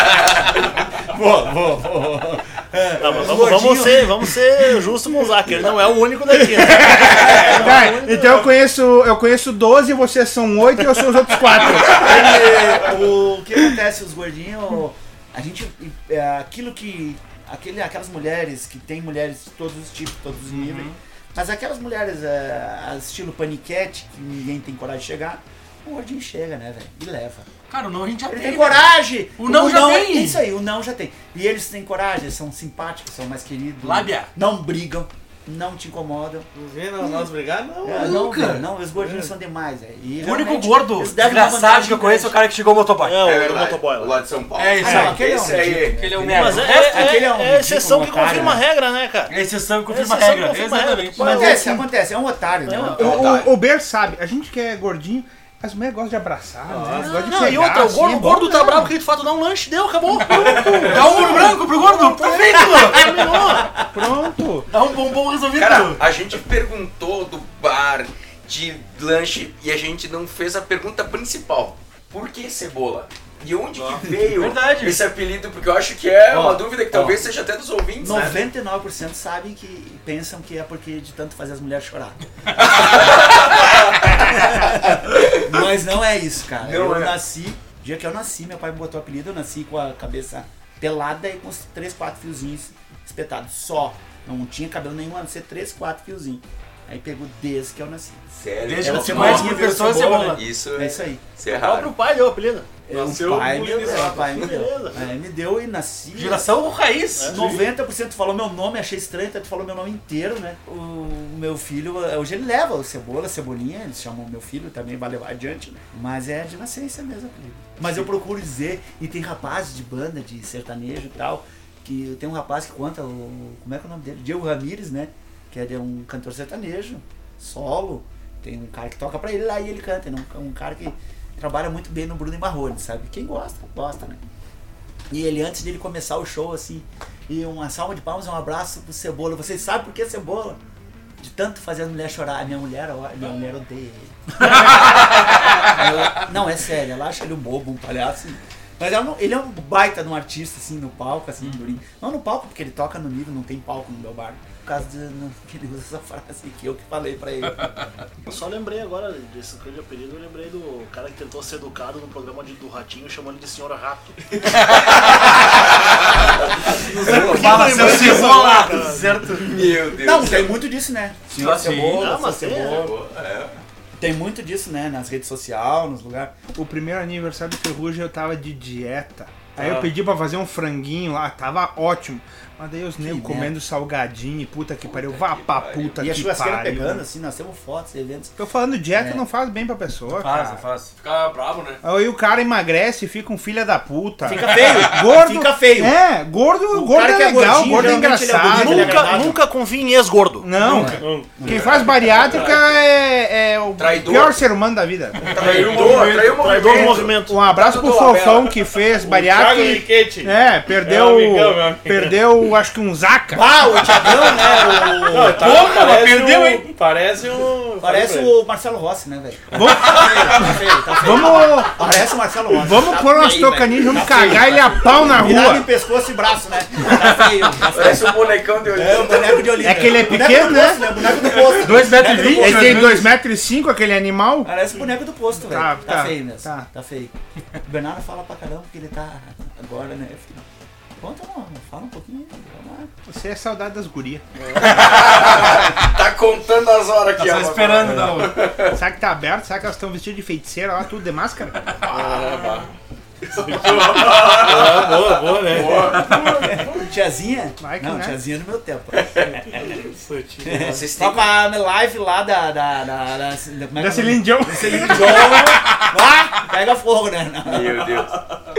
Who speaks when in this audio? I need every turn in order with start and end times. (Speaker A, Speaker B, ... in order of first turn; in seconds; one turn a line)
Speaker A: 1.0-4.2
Speaker B: 3.0-8.4
Speaker C: 3.4-3.8
Speaker D: 6.3-12.7
Speaker A: 7.2-8.0
Speaker A: 11.8-27.5
Speaker C: 20.5-21.0
Speaker C: 27.7-30.4
Speaker A: 28.3-37.3
Speaker C: 33.8-34.3
Speaker E: 36.5-39.3
Speaker A: 37.8-42.4
Speaker C: 38.0-38.7
Speaker C: 40.2-43.4
Speaker B: 43.0-44.2
Speaker F: 43.2-46.0
Speaker C: 44.6-45.4
Speaker A: 44.8-48.6
Speaker C: 45.9-47.3
Speaker B: 46.2-51.7
Speaker C: 49.3-51.6
Speaker D: 51.2-51.9
Speaker A: 51.2-53.4
Speaker B: 52.7-53.0
Speaker D: 52.8-58.9
Speaker F: 53.0-53.5
Speaker E: 56.7-57.2
Speaker B: 57.0-63.7
Speaker D: 60.3-60.9
Speaker C: 60.4-63.5
Speaker A: 61.2-61.5
Speaker A: 63.5-64.1
Speaker D: 63.9-64.7
Speaker C: 64.7-66.0
Speaker F: 65.5-78.5
Speaker C: 73.8-75.0
Speaker A: 74.0-74.3
Speaker A: 76.3-77.4
Speaker A: 78.0-82.2
Speaker F: 82.8-83.8
Speaker A: 84.0-101.2
Speaker F: 85.1-85.4
Speaker F: 86.6-87.2
Speaker F: 98.4-101.9
Speaker C: 98.6-100.5
Speaker B: 101.5-102.7
Speaker A: 102.9-106.6
Speaker G: 102.9-104.4
Speaker B: 103.7-105.0
Speaker C: 106.1-107.5
Speaker B: 107.2-107.5
Speaker A: 107.3-134.2
Speaker A: 135.1-140.6
Speaker A: 141.2-157.8
Speaker B: 158.3-164.5
Speaker B: 166.7-169.3
Speaker A: 166.9-172.9
Speaker F: 167.0-168.1
Speaker C: 167.4-169.4
Speaker D: 167.4-167.9
Speaker F: 169.4-170.6
Speaker C: 171.3-172.1
Speaker B: 171.9-172.8
Speaker F: 172.5-173.6
Speaker A: 174.0-176.3
Speaker D: 176.6-187.1
Speaker C: 179.6-179.9
Speaker A: 183.0-183.5
Speaker F: 184.8-186.1
Speaker A: 186.0-189.2
Speaker D: 188.4-190.6
Speaker C: 190.2-190.9
Speaker G: 191.0-191.8
Speaker D: 191.8-199.3
Speaker A: 194.2-196.0
Speaker A: 196.7-199.4
Speaker B: 197.7-200.5
Speaker D: 200.4-205.3
Speaker A: 200.6-202.0
Speaker E: 200.7-201.5
Speaker G: 201.5-202.4
Speaker F: 203.8-204.4
Speaker F: 205.2-207.2
Speaker E: 205.2-205.5
Speaker G: 205.4-206.8
Speaker C: 205.4-207.0
Speaker B: 206.4-207.6
Speaker D: 207.3-213.7
Speaker E: 208.9-212.2
Speaker A: 213.3-215.6
Speaker E: 215.0-218.4
Speaker C: 215.2-216.8
Speaker A: 217.8-233.1
Speaker E: 219.5-220.3
Speaker D: 219.5-221.9
Speaker D: 222.5-225.7
Speaker F: 227.7-230.0
Speaker D: 229.6-234.5
Speaker C: 231.5-233.1
Speaker A: 234.4-240.4
Speaker D: 235.3-236.7
Speaker A: 241.0-242.9
Speaker D: 243.1-245.0
Speaker E: 244.4-244.8
Speaker F: 244.6-248.7
Speaker C: 247.2-248.4
Speaker E: 247.8-248.3
Speaker D: 248.7-251.8
Speaker E: 251.8-252.7
Speaker F: 251.9-252.6
Speaker F: 253.3-256.7
Speaker E: 253.5-256.2
Speaker A: 255.8-259.6
Speaker C: 256.1-256.4
Speaker D: 257.6-258.2
Speaker E: 259.2-260.9
Speaker A: 260.4-268.1
Speaker F: 260.7-261.3
Speaker D: 263.8-265.6
Speaker F: 267.4-268.4